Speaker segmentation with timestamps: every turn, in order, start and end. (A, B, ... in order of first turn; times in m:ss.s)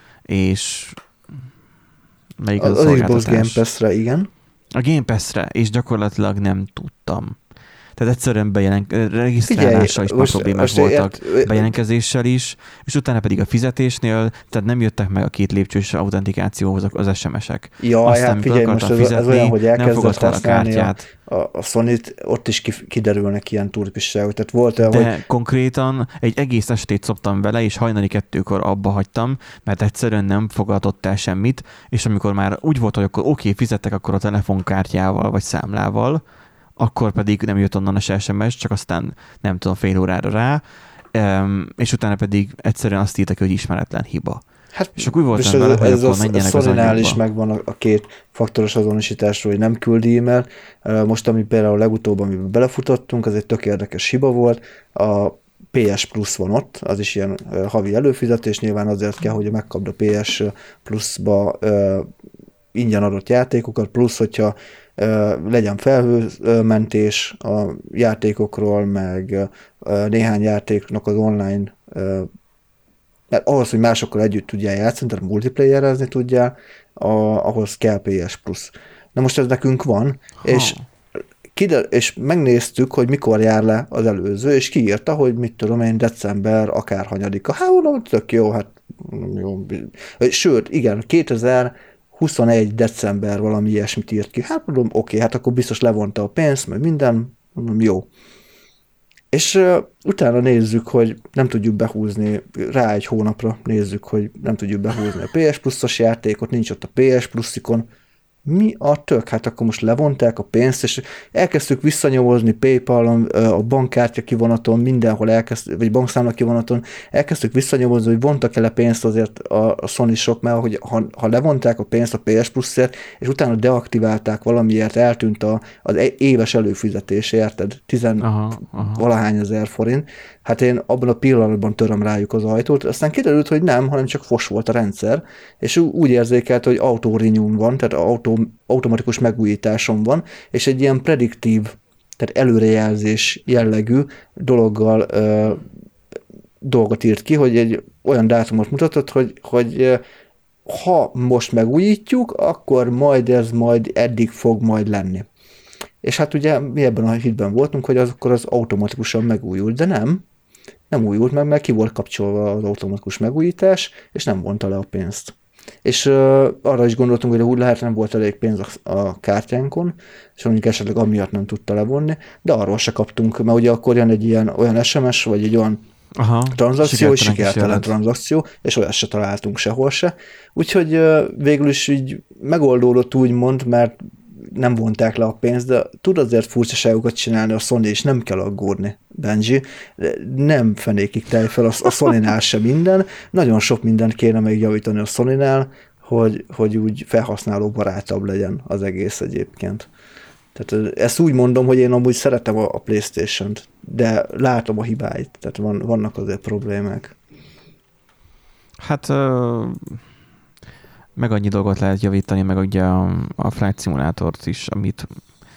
0:00.3-0:01.0 A
0:02.4-0:03.6 A
0:02.6-0:04.3 B
0:04.8-0:07.4 A
0:08.0-0:21.0 A
0:09.4-0:11.8 B
0:17.8-0:25.1 B
0:24.8-0:36.2 A
0:36.8-0:40.6 A
0:41.1-0:44.4 A
0:44.7-1:02.1 B
0:45.0-0:47.2 A
1:02.7-1:12.3 B
1:13.3-1:20.8 B
1:20.4-1:20.8 A
1:21.5-1:38.1 B
1:39.3-1:47.8 B
1:48.4-2:25.7 B
2:08.2-2:09.0 A
2:26.6-2:30.0 B
2:30.6-2:35.3 B
2:36.0-2:40.2 B
2:40.9-2:55.8 B
2:56.2-2:57.9 A
2:56.5-3:19.9 B
3:20.5-3:27.2 B
3:28.8-3:30.0 A
3:31.2-3:35.2 A